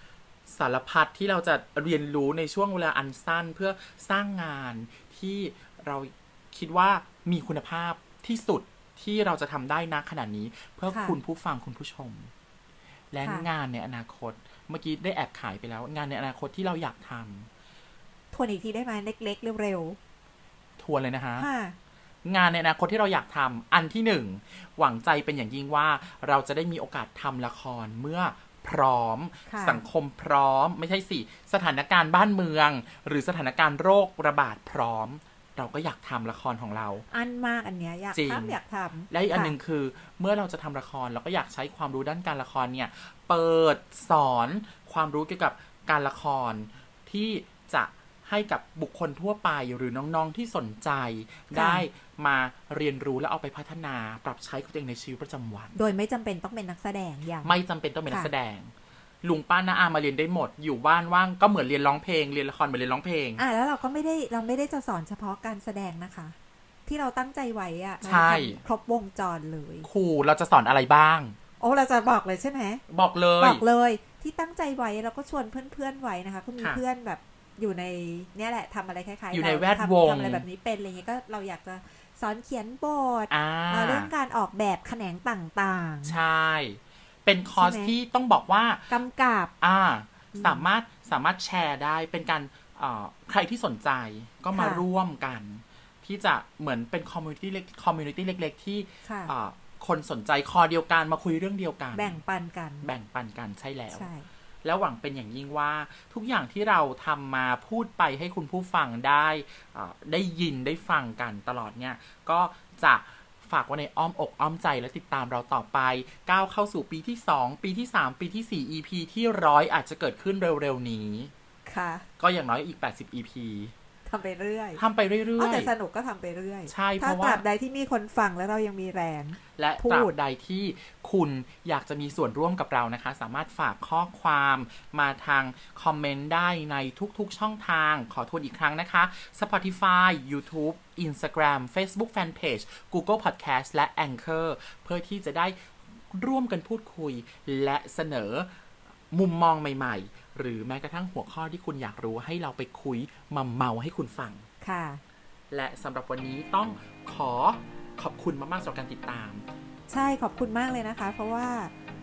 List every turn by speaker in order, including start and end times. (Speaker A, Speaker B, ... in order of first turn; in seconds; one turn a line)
Speaker A: 0.5-12.3
Speaker B: 10.9-11.2
Speaker A: 13.1-17.5
Speaker B: 13.2-13.5
Speaker B: 18.3-20.0
Speaker A: 20.8-21.5
Speaker B: 21.4-21.8
Speaker A: 22.2-37.0
Speaker B: 29.5-29.8
Speaker B: 37.1-39.5
Speaker A: 38.1-38.6
Speaker A: 39.1-55.7
Speaker B: 51.5-51.9
Speaker B: 55.8-57.5
Speaker A: 57.4-63.4
Speaker B: 63.4-66.4
Speaker B: 66.9-69.9
Speaker A: 68.0-68.6
Speaker A: 69.8-71.4
Speaker B: 71.6-72.8
Speaker A: 72.9-73.6
Speaker B: 73.4-86.2
Speaker A: 79.3-80.5
Speaker A: 83.3-84.1
Speaker A: 86.0-88.9
Speaker B: 87.5-87.9
Speaker B: 88.9-89.5
Speaker A: 89.6-102.2
Speaker B: 90.3-90.7
Speaker B: 94.5-94.8
Speaker B: 99.0-99.3
Speaker B: 101.9-102.9
Speaker A: 102.8-104.1
Speaker B: 103.9-104.3
Speaker A: 104.6-121.3
Speaker B: 121.7-122.1
Speaker A: 122.2-123.7
Speaker B: 124.1-124.8
Speaker A: 124.8-125.7
Speaker B: 125.4-130.1
Speaker A: 126.7-127.4
Speaker A: 129.6-145.6
Speaker A: 146.1-148.5
Speaker A: 149.1-154.5
Speaker B: 154.6-155.0
Speaker A: 155.5-159.4
Speaker B: 159.9-161.7